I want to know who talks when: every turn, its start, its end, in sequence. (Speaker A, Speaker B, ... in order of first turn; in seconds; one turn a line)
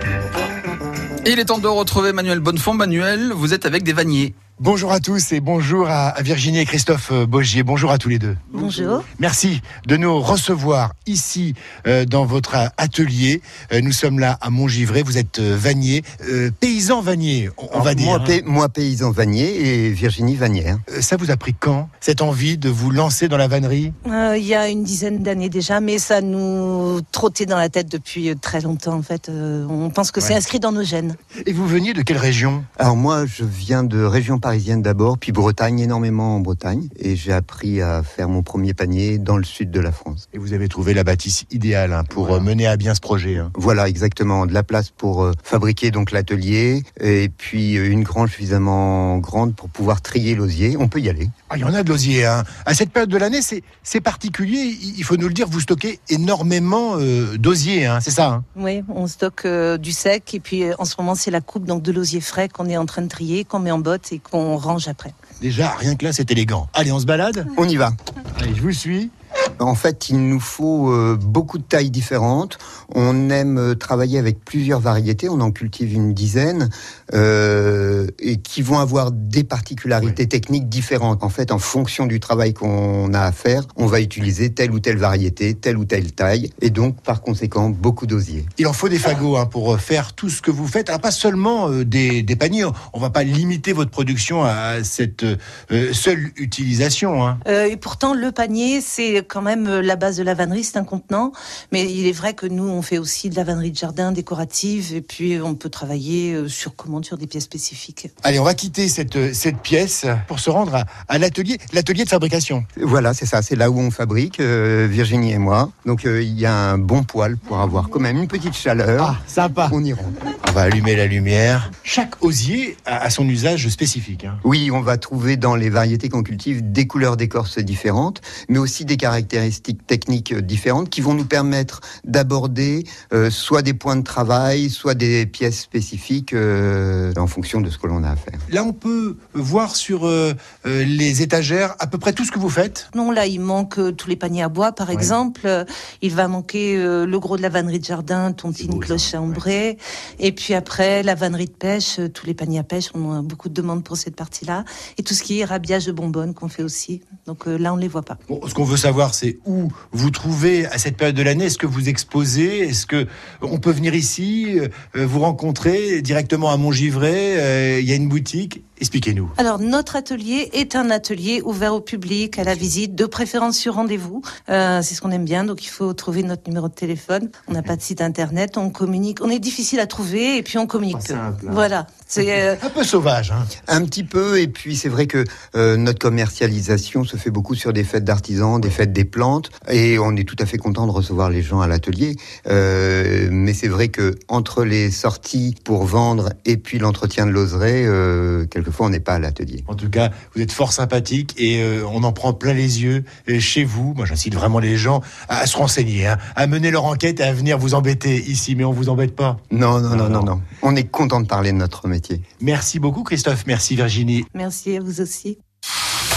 Speaker A: 1.2-4.4
Speaker B: 4.6-8.6
Speaker C: 8.5-9.1
Speaker B: 9.2-18.4
Speaker D: 17.7-20.8
Speaker B: 20.9-23.9
Speaker C: 24.1-31.2
Speaker B: 31.4-32.7
Speaker D: 32.8-40.2
Speaker B: 40.3-43.5
Speaker D: 42.1-42.5
Speaker D: 43.6-51.3
Speaker B: 51.5-58.5
Speaker C: 58.6-65.2
Speaker B: 65.4-67.5
Speaker D: 67.6-68.0
Speaker B: 68.3-69.1
Speaker D: 69.6-88.5
Speaker B: 88.6-97.4
Speaker C: 97.5-108.1
Speaker B: 108.2-112.7
Speaker D: 112.8-120.1
Speaker B: 119.0-119.8
Speaker B: 120.4-124.4
Speaker D: 124.4-138.4
Speaker B: 138.5-142.9
Speaker C: 142.9-158.2
Speaker B: 148.6-149.4
Speaker B: 158.3-169.3
Speaker C: 169.4-182.6
Speaker B: 180.9-181.7
Speaker B: 182.4-183.5
Speaker D: 183.7-199.7
Speaker B: 199.7-210.3
Speaker D: 209.5-212.2
Speaker B: 212.4-214.3
Speaker C: 214.3-215.4